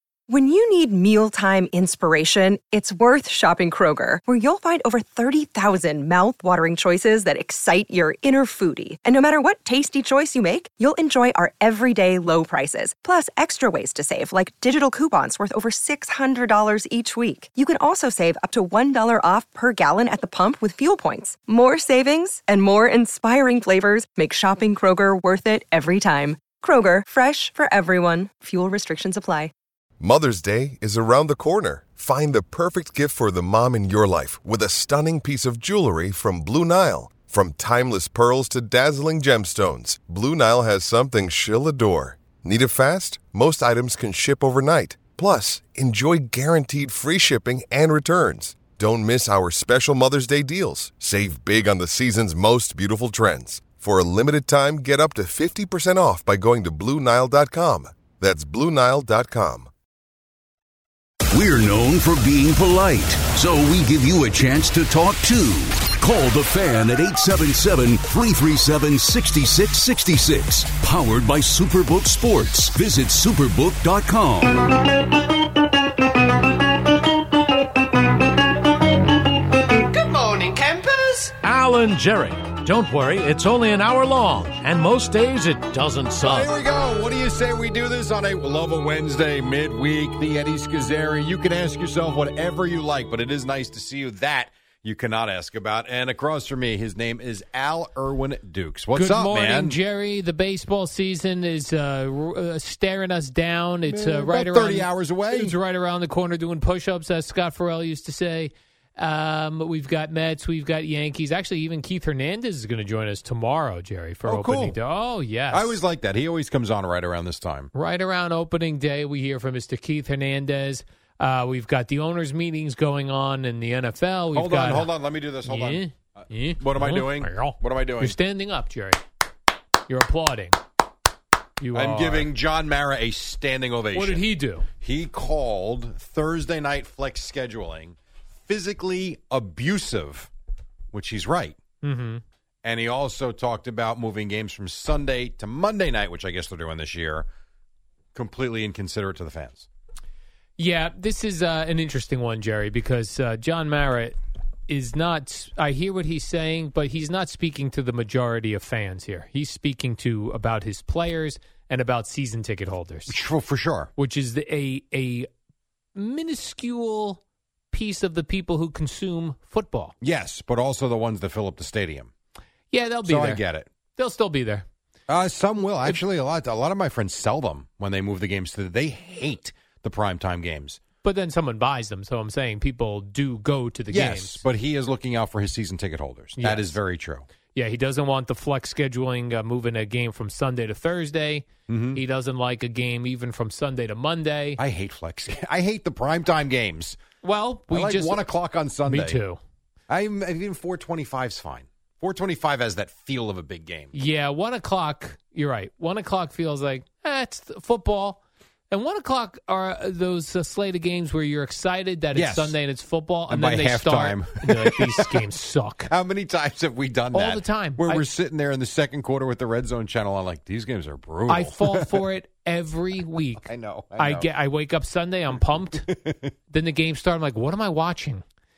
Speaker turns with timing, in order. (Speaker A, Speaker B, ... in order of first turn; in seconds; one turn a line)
Speaker A: 0.3-29.5
Speaker B: 30.0-59.7
Speaker C: 61.3-74.6
Speaker D: 79.8-86.5
Speaker E: 86.2-99.8
Speaker F: 98.9-115.8
Speaker E: 103.9-105.5
Speaker E: 114.2-114.8
Speaker E: 115.5-117.7
Speaker F: 117.7-124.9
Speaker E: 124.3-128.2
Speaker F: 125.4-129.0
Speaker F: 129.9-130.6
Speaker F: 131.6-132.3
Speaker E: 131.7-134.3
Speaker F: 133.9-134.7
Speaker E: 134.8-140.3
Speaker E: 140.9-141.6
Speaker F: 141.8-142.2
Speaker E: 142.6-147.3
Speaker E: 148.1-149.7
Speaker F: 150.6-154.2
Speaker F: 154.7-163.1
Speaker E: 163.1-163.9
Speaker F: 164.0-165.3
Speaker F: 165.9-167.2
Speaker F: 167.7-169.9
Speaker E: 170.0-172.1
Speaker F: 172.7-173.4
Speaker E: 173.1-173.7
Speaker F: 173.9-174.7
Speaker E: 175.1-180.8
Speaker F: 181.0-184.4
Speaker E: 183.9-187.2
Speaker F: 186.4-186.8
Speaker F: 187.5-194.6
Speaker E: 191.7-192.0
Speaker E: 194.6-197.0
Speaker F: 197.2-198.2
Speaker E: 197.7-199.2
Speaker F: 198.9-199.4
Speaker E: 199.9-203.9
Speaker F: 203.9-215.9
Speaker E: 212.1-212.6
Speaker E: 213.3-215.2
Speaker E: 215.9-222.0
Speaker F: 217.1-218.0
Speaker F: 221.3-225.9
Speaker E: 223.4-224.3
Speaker E: 225.8-226.3
Speaker F: 226.5-228.2